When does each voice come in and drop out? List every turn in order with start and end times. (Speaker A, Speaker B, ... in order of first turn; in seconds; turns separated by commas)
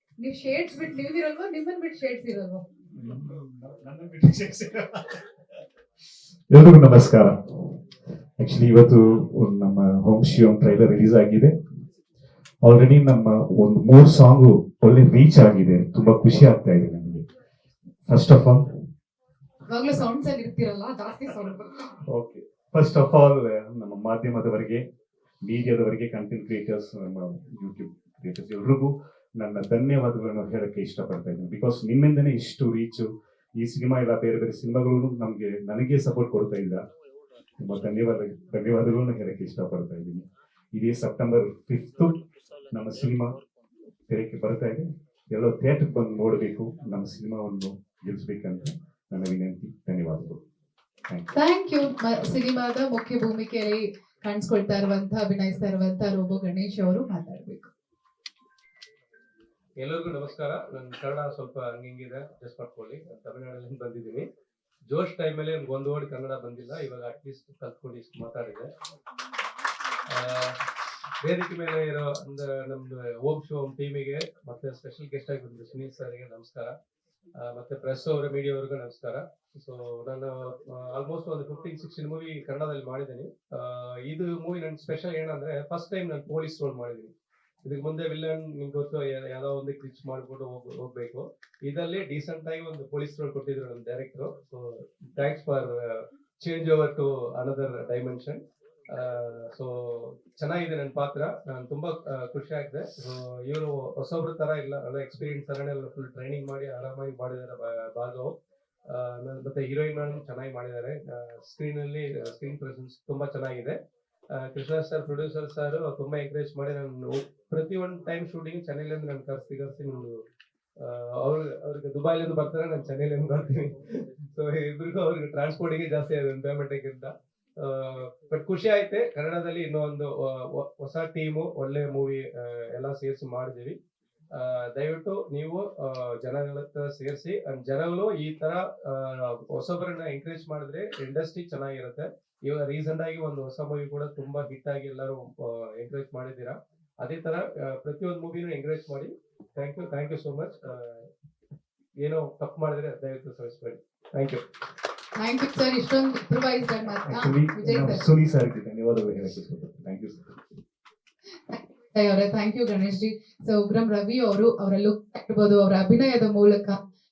Speaker A: 0.2-2.6, Speaker B: 3.0-5.3, Speaker B: 6.5-7.8, Speaker B: 8.4-11.5, Speaker B: 12.6-17.2, Speaker B: 18.1-18.7, Speaker A: 19.7-22.0, Speaker B: 22.1-24.9, Speaker B: 25.4-36.9, Speaker B: 37.6-43.4, Speaker B: 44.1-50.4, Speaker A: 51.3-57.7, Speaker C: 59.8-64.3, Speaker C: 64.9-68.7, Speaker C: 70.1-70.6, Speaker C: 71.2-76.8, Speaker C: 77.4-87.1, Speaker C: 87.6-108.3, Speaker C: 108.9-113.8, Speaker C: 114.3-120.1, Speaker C: 120.8-133.8, Speaker C: 134.4-151.1, Speaker C: 152.0-154.4, Speaker A: 155.2-158.0, Speaker B: 157.1-160.4, Speaker A: 161.5-166.8